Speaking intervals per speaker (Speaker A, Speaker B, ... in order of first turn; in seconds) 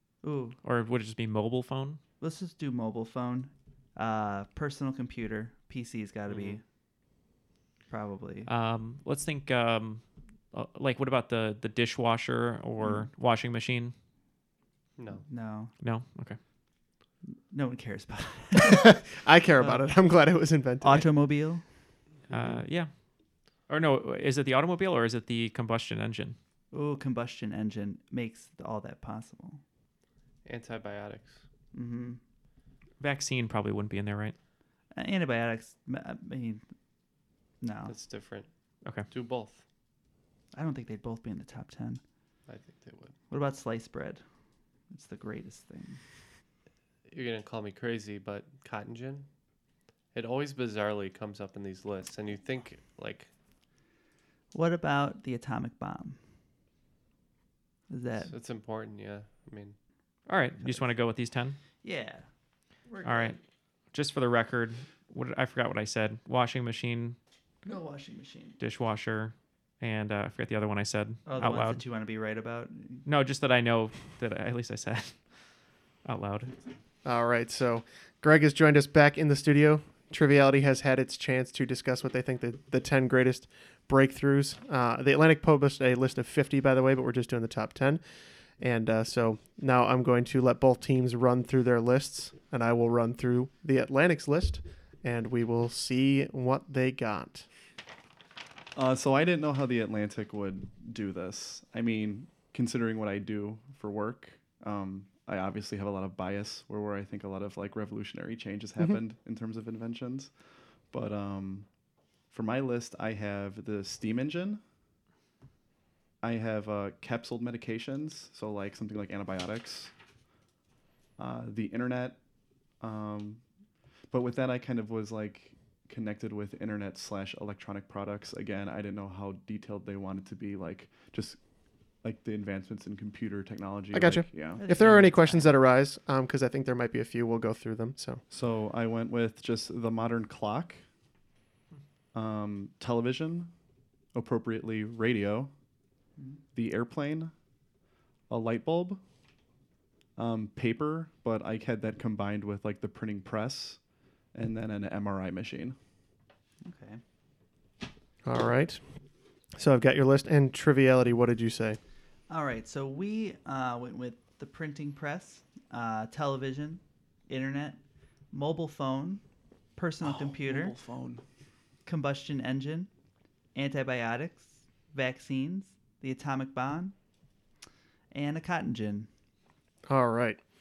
Speaker A: 0.2-0.6, 2.2-6.6, 7.9-8.5, 15.3-15.7, 17.2-19.0, 19.6-19.8, 20.8-21.6, 26.7-29.6, 31.7-32.2, 34.9-36.6, 37.6-37.9, 40.5-42.0, 43.3-44.2, 44.9-46.0, 54.5-56.2, 57.9-58.3, 61.8-62.3, 62.9-63.4, 67.6-68.6, 71.2-73.0, 134.6-135.5, 156.6-157.0, 162.3-167.8, 168.3-169.2, 169.8-170.8, 171.8-172.9, 173.5-176.9, 178.1-179.1
Speaker B: 0.6-2.0, 8.5-13.9, 15.8-16.4, 22.3-22.9, 23.7-26.4, 33.0-34.3, 60.3-61.6, 63.0-63.4, 63.9-67.2, 68.6-71.8, 73.0-75.2, 76.0-76.5
Speaker C: 6.3-6.6, 15.0-15.2, 22.3-22.6, 30.4-31.4, 37.9-38.5, 39.1-39.6, 42.5-43.1, 47.1-49.3, 50.1-53.3, 58.2-59.8
Speaker D: 18.6-21.1, 77.0-88.0, 88.6-97.5, 133.9-138.2, 158.2-158.8, 159.6-161.8, 179.9-180.4
Speaker E: 98.8-110.3, 110.9-111.7, 112.3-114.6, 116.2-119.9, 121.2-122.2, 122.8-123.4, 124.1-131.4, 132.0-134.6, 138.3-140.8, 142.1-143.5, 144.1-145.5, 146.5-147.3, 148.3-149.0, 150.2-153.8, 154.3-155.8, 170.0-171.2